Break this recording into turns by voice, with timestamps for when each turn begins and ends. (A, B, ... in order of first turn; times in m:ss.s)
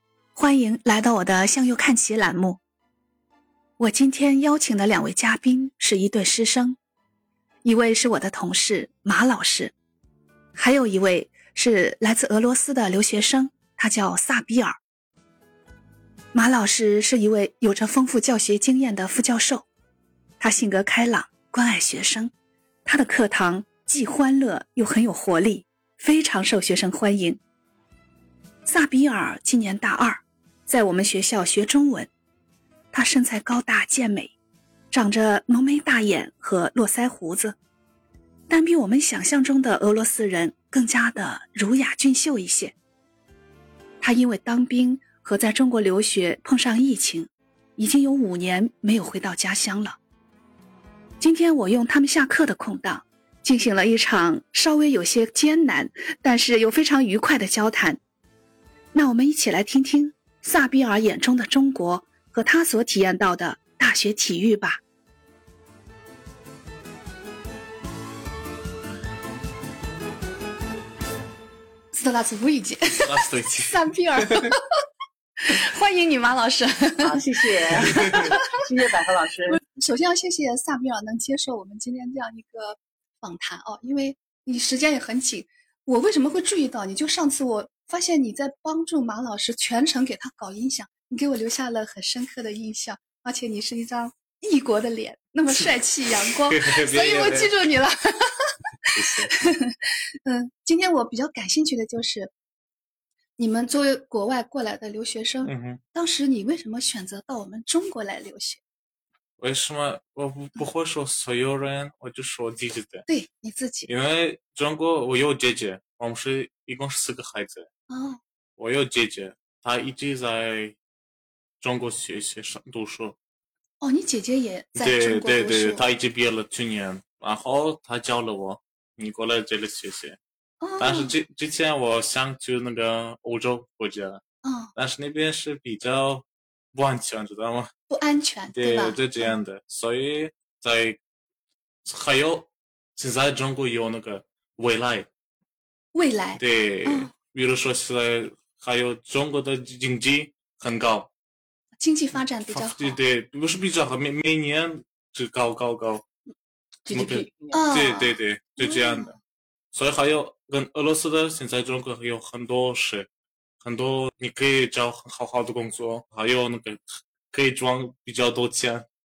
0:00.3-0:02.6 A
0:03.8-0:06.8 A
0:07.6-0:09.7 A
0:10.6-0:14.8 A
0:16.3-0:19.7 A
0:20.4-0:22.3 A
0:22.8-0:27.4 A
0:28.6-0:32.1 A
0:32.9-0:34.3 A
0:34.9-0:37.6 A
0:38.5-0:42.7 A
0:44.0-0:50.0 A
0:51.2-0:58.0 A
0:58.9-1:04.8 A
1:11.9-1:14.6 A
1:13.0-1:14.6 B
1:15.4-1:18.6 A
1:17.0-1:19.6 C
1:17.8-1:18.4 B
1:19.6-1:38.5 A
1:36.3-1:37.5 B
1:38.9-1:39.3 B
1:39.1-1:42.3 A
1:43.4-1:48.6 A
1:45.4-1:45.8 B
1:49.4-1:53.0 B
1:53.1-1:53.9 A
1:53.9-1:57.7 B
1:57.9-1:58.2 A
1:58.6-2:00.8 B
2:01.6-2:03.2 B
2:03.8-2:05.8 A
2:04.8-2:10.2 B
2:10.6-2:11.1 A
2:10.8-2:14.2 B
2:14.4-2:14.7 A
2:14.7-2:17.7 B
2:17.9-2:19.3 A
2:18.5-2:21.0 B
2:21.8-2:25.1 B
2:25.9-2:27.1 A
2:26.4-2:31.1 B
2:31.8-2:33.0 A
2:32.5-2:36.0 B
2:36.8-2:37.8 C
2:36.9-2:39.1 B
2:37.5-2:39.2 A
2:39.7-2:43.1 B
2:43.6-2:48.8 B